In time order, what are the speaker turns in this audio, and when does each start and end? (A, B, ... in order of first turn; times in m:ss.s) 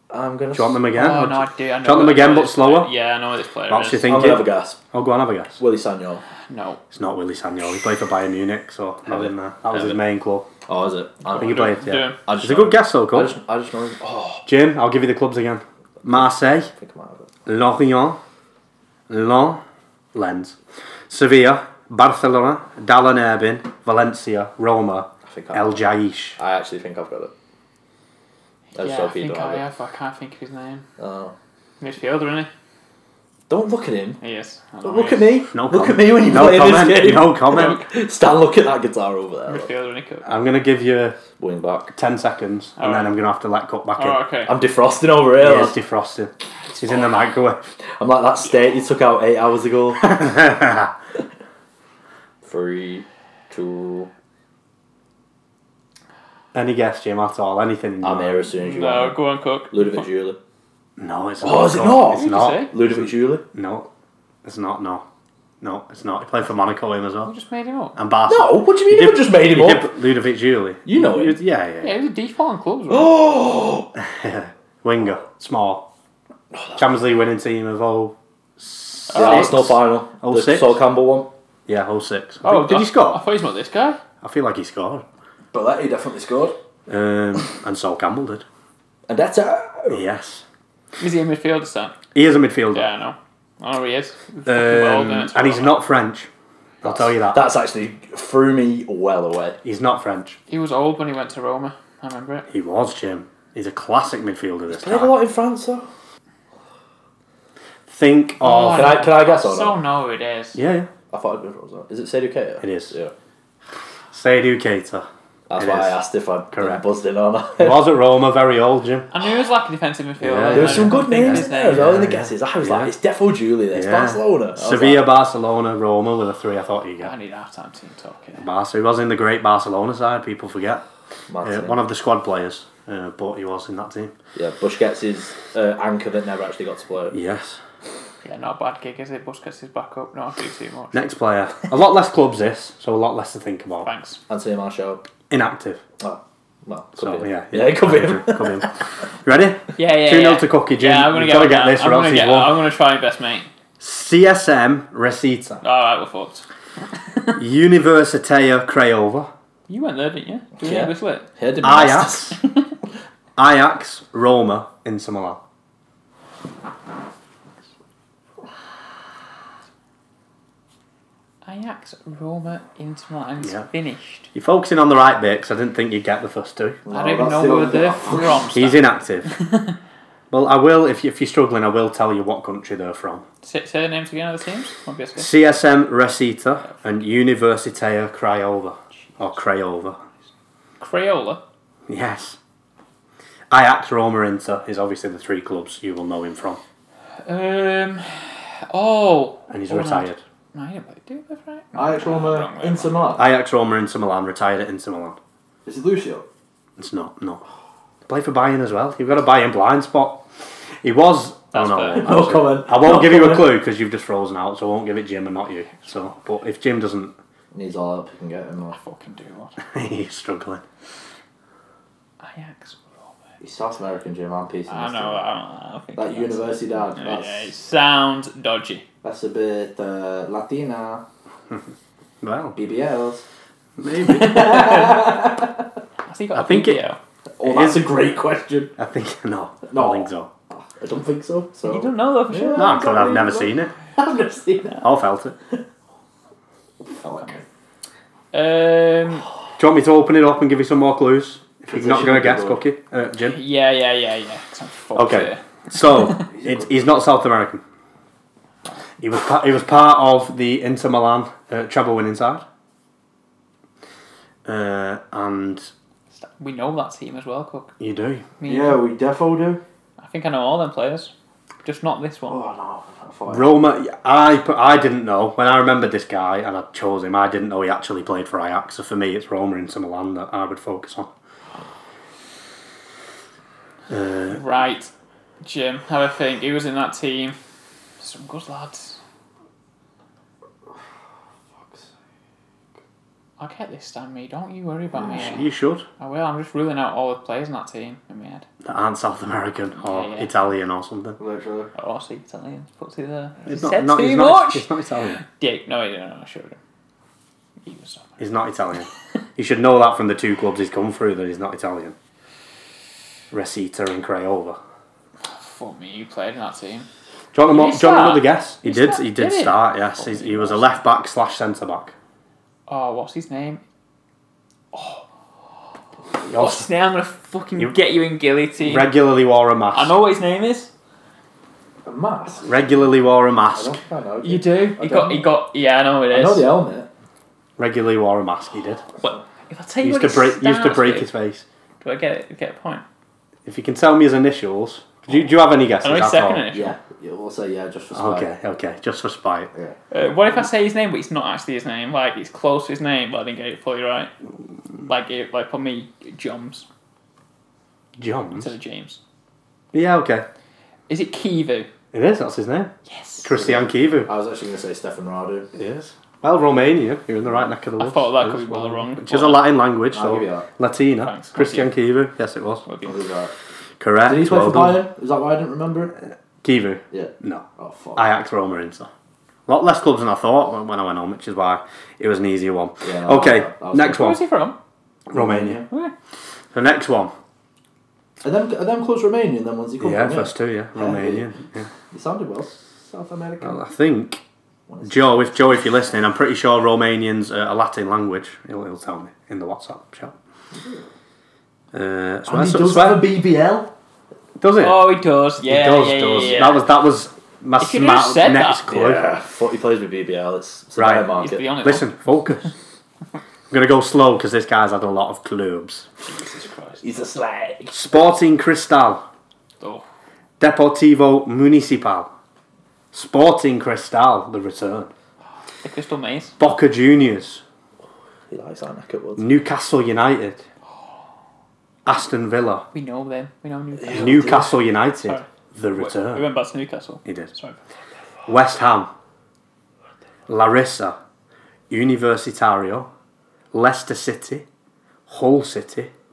0:00.1-0:00.8 A
0:00.5-0:02.9 B
0:00.9-0:04.1 C
0:03.7-0:05.6 B
0:04.0-0:04.8 A
0:05.6-0:06.2 A
0:06.5-0:06.8 C
0:06.9-0:10.5 B
0:09.1-0:10.0 A
0:10.7-0:11.6 A
0:11.3-0:12.2 C
0:11.4-0:13.4 B
0:12.2-0:14.4 A
0:14.5-0:16.7 B
0:16.1-0:17.3 A
0:17.5-0:18.2 B
0:19.1-0:19.6 B
0:20.1-0:20.6 B
0:21.1-0:26.4 B
0:25.2-0:25.8 A
0:26.4-0:27.3 A
0:28.8-0:29.6 A
0:28.8-0:30.8 C
0:31.0-0:31.4 A
0:31.8-0:32.5 C
0:33.5-0:34.2 A
0:34.2-0:35.3 C
0:34.8-0:39.7 A
0:35.5-0:37.8 B
0:39.5-0:40.3 C
0:40.2-0:41.2 B
0:41.4-0:41.9 A
0:41.9-0:44.2 B
0:42.8-0:43.2 C
0:44.0-0:44.5 C
0:44.5-0:45.8 A
0:45.4-0:47.7 B
0:48.0-0:50.4 A
0:50.1-0:50.9 B
0:52.4-0:54.1 A
0:56.5-0:58.5 B
0:58.0-0:59.2 A
0:58.6-1:00.0 C
0:59.7-1:00.4 A
1:01.0-1:03.9 B
1:01.4-1:03.4 A
1:02.1-1:02.7 C
1:04.4-1:05.0 B
1:05.6-1:07.3 B
1:07.2-1:08.0 C
1:08.0-1:12.0 B
1:08.3-1:09.9 A
1:10.8-1:11.4 A
1:11.8-1:13.2 C
1:12.9-1:13.9 A
1:14.0-1:15.9 B
1:16.5-1:16.8 A
1:16.8-1:20.8 B
1:19.1-1:19.6 C
1:19.1-1:21.3 A
1:21.7-1:23.2 B
1:22.4-1:24.0 C
1:24.2-1:25.0 B
1:25.5-1:26.6 A
1:26.9-1:28.4 B
1:29.1-1:30.0 A
1:29.9-1:30.4 B
1:31.0-1:32.0 C
1:32.1-1:32.9 B
1:32.7-1:35.8 C
1:34.5-1:36.3 B
1:36.8-1:37.4 B
1:36.8-1:39.6 A
1:39.6-1:40.4 B
1:40.5-1:42.5 C
1:42.5-1:45.1 B
1:44.7-1:45.9 A
1:47.9-1:49.0 B
1:48.4-1:50.6 C
1:48.6-1:49.8 A
1:50.6-1:50.9 B
1:51.1-1:53.1 A
1:52.6-1:53.0 B
1:54.1-1:56.0 B
1:55.5-1:57.8 A
1:56.5-1:56.8 B
1:57.6-1:59.1 B
1:59.1-2:02.0 C
2:00.2-2:02.9 B
2:00.4-2:05.1 A
2:03.7-2:07.1 B
2:07.0-2:08.5 C
2:08.4-2:10.8 B
2:11.3-2:11.8 A
2:11.4-2:14.2 B
2:14.4-2:17.2 A
2:17.1-2:17.6 B
2:18.2-2:21.0 C
2:20.9-2:23.9 B
2:23.8-2:24.2 C
2:24.3-2:25.0 A
2:25.3-2:25.8 B
2:26.0-2:28.7 A
2:27.0-2:28.7 B
2:29.2-2:32.6 B
2:29.8-2:33.5 C
2:33.8-2:35.6 B
2:35.6-2:36.4 C
2:37.1-2:37.4 C
2:37.4-2:39.3 B
2:39.7-2:41.3 C
2:40.6-2:42.4 A
2:41.6-2:42.4 B
2:43.4-2:45.4 B
2:51.4-2:54.3 C
2:54.3-2:56.8 B
2:56.9-2:58.4 A
2:56.9-2:58.8 C
2:58.5-2:59.3 B
2:59.3-2:59.7 C
3:00.3-3:03.2 B
3:03.4-3:05.3 C
3:05.2-3:10.0 B
3:10.8-3:11.4 C
3:11.9-3:12.4 B
3:13.5-3:16.6 B
3:17.2-3:23.0 C
3:19.5-3:20.2 B
3:21.8-3:23.2 A
3:23.2-3:25.2 B
3:25.7-3:26.3 A
3:26.8-3:27.4 B
3:28.1-3:30.2 B
3:30.8-3:37.2 B
3:31.5-3:32.1 C
3:32.0-3:33.5 A
3:37.5-3:38.8 A
3:38.7-3:39.6 C
3:39.6-3:40.6 B
3:42.2-3:43.1 C
3:43.4-3:45.2 A
3:44.7-3:48.8 C
3:46.0-3:47.5 A
3:49.0-3:51.0 A
3:52.2-3:52.6 B
3:52.6-3:53.3 A
3:53.8-3:54.9 B
3:54.0-3:55.1 C
3:54.2-3:55.6 A
3:56.1-3:57.0 C
3:56.4-3:56.8 B
3:57.4-3:58.7 A
3:57.4-3:57.8 B
3:58.8-4:00.3 B
3:59.6-4:04.8 A
4:01.6-4:02.8 C
4:02.6-4:03.7 B
4:04.8-4:05.4 B
4:07.0-4:07.4 A
4:08.3-4:09.3 C
4:09.6-4:13.4 B
4:11.7-4:12.6 A
4:13.2-4:16.3 C
4:15.0-4:17.6 B
4:16.4-4:16.6 A
4:19.0-4:22.4 B
4:24.5-4:25.7 B
4:26.2-4:27.8 C
4:27.8-4:28.3 B
4:28.4-4:28.8 C
4:28.4-4:29.6 A
4:30.0-4:31.1 C
4:31.6-4:32.4 C
4:32.3-4:33.5 A
4:33.3-4:41.1 B
4:43.9-4:44.4 B
4:44.3-4:47.4 C
4:48.0-4:49.0 C
4:53.4-4:55.5 C
4:55.1-4:55.9 B
4:56.0-4:58.5 C
4:58.6-5:01.2 B
4:59.8-5:00.3 C
5:01.2-5:01.7 A
5:01.8-5:06.6 C
5:03.4-5:05.2 B
5:07.6-5:08.2 C
5:08.2-5:12.0 B
5:13.3-5:14.6 B
5:15.3-5:16.9 C
5:17.3-5:21.9 B
5:17.5-5:20.6 C
5:22.7-5:23.6 C
5:24.7-5:25.0 C
5:26.3-5:26.7 B
5:26.3-5:28.9 C
5:28.6-5:29.9 B
5:29.7-5:30.7 C
5:31.8-5:33.0 A
5:32.5-5:33.8 B
5:33.5-5:35.3 A
5:34.2-5:36.5 C
5:36.1-5:36.9 A
5:37.6-5:38.8 B
5:39.0-5:41.1 C
5:39.8-5:41.4 B
5:41.8-5:42.8 C
5:43.5-5:46.4 B
5:45.8-5:46.8 C
5:46.5-5:48.3 A
5:47.9-5:49.5 B
5:49.9-5:54.1 C
5:54.9-5:56.7 C
5:58.0-5:58.5 B
5:58.3-5:59.0 C
5:59.7-6:00.3 B
6:00.9-6:01.7 C
6:01.9-6:02.7 B
6:02.9-6:03.3 C
6:03.2-6:04.1 B
6:03.4-6:05.5 A
6:05.6-6:12.6 B
6:07.8-6:09.4 C
6:09.9-6:10.5 A
6:11.0-6:11.7 C
6:12.6-6:13.0 C
6:12.8-6:13.3 A
6:13.8-6:14.8 B
6:14.1-6:15.9 A
6:16.4-6:18.9 B
6:16.9-6:18.1 A
6:19.5-6:24.2 B
6:22.8-6:24.1 A
6:23.8-6:24.6 C
6:25.1-6:25.6 B
6:25.1-6:25.6 A
6:26.5-6:27.1 B
6:28.2-6:31.3 A
6:29.8-6:31.7 B
6:31.9-6:33.6 A
6:33.4-6:34.2 B
6:34.7-6:35.4 A
6:34.8-6:40.2 B
6:40.5-6:40.8 A
6:41.7-6:43.0 B
6:42.3-6:43.8 A
6:44.4-6:49.1 B
6:44.6-6:46.7 C
6:47.6-6:48.6 C
6:48.7-6:51.4 A
6:50.8-6:51.1 B
6:51.1-6:51.9 C
6:51.6-6:52.5 B
6:53.5-6:55.9 B
6:56.1-6:56.8 C
6:56.8-6:57.8 A
6:57.7-6:59.0 B
7:00.4-7:02.1 B
7:02.9-7:04.9 B
7:05.6-7:06.3 C
7:06.4-7:07.4 B
7:08.3-7:09.4 A
7:09.2-7:10.4 B
7:11.8-7:12.6 B
7:12.7-7:17.6 C
7:13.8-7:14.5 A
7:13.9-7:16.2 B
7:17.0-7:17.3 B
7:18.3-7:18.9 B
7:20.3-7:21.0 B
7:21.7-7:22.9 B
7:23.5-7:24.5 B
7:25.1-7:25.9 B